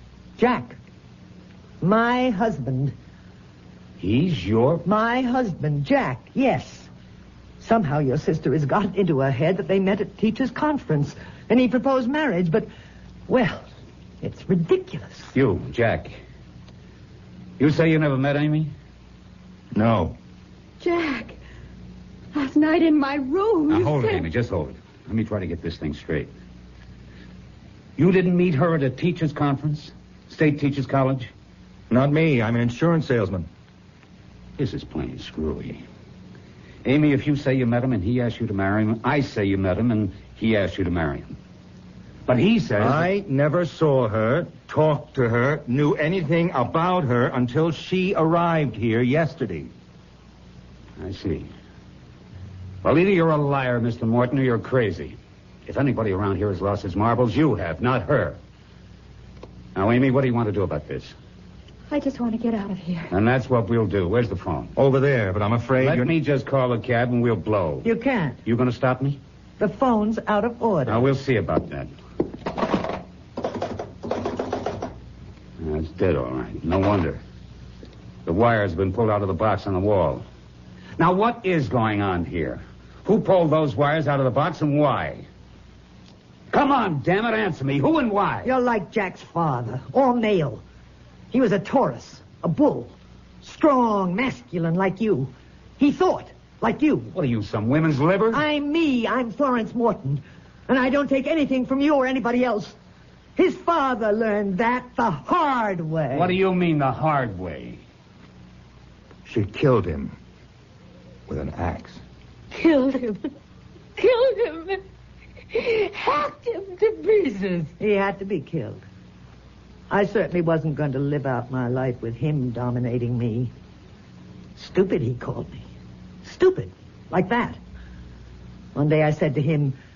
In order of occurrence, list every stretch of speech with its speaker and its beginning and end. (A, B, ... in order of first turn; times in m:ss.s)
0:00.4-0:00.8 A
0:01.8-0:02.9 A
0:04.0-0:04.8 B
0:04.8-0:06.9 A
0:07.6-0:12.7 A
0:13.3-0:13.7 A
0:14.2-0:15.3 A
0:15.3-0:16.2 B
0:17.6-0:18.7 B
0:19.7-0:20.2 C
0:20.8-0:21.4 D
0:22.3-0:24.3 D
0:23.7-0:26.3 B
0:28.0-0:31.3 B
0:31.9-0:33.5 C
0:34.6-0:35.8 B
0:36.8-0:41.4 B
0:42.3-0:43.1 B
0:42.8-0:49.7 C
0:51.0-0:51.5 B
0:52.8-0:58.4 B
0:59.8-1:01.1 B
1:01.9-1:03.1 D
1:03.1-1:04.7 B
1:04.8-1:06.1 C
1:05.8-1:07.9 B
1:07.8-1:08.4 A
1:08.4-1:09.2 B
1:09.6-1:11.1 A
1:10.9-1:11.9 B
1:15.6-1:17.2 B
1:18.2-1:20.2 B
1:21.0-1:25.3 B
1:26.5-1:28.5 B
1:28.4-1:30.6 A
1:31.3-1:37.1 A
1:37.1-1:38.4 B
1:38.3-1:42.8 A
1:43.4-1:46.4 A
1:46.1-1:47.8 B
1:49.2-1:50.1 C
1:51.3-1:52.0 C
1:52.5-1:53.3 E
1:54.0-1:54.8 E
1:55.5-1:57.7 E
1:57.8-1:58.8 A
1:59.9-2:03.5 A
2:04.6-2:05.6 A
2:06.2-2:07.6 A
2:08.8-2:09.8 A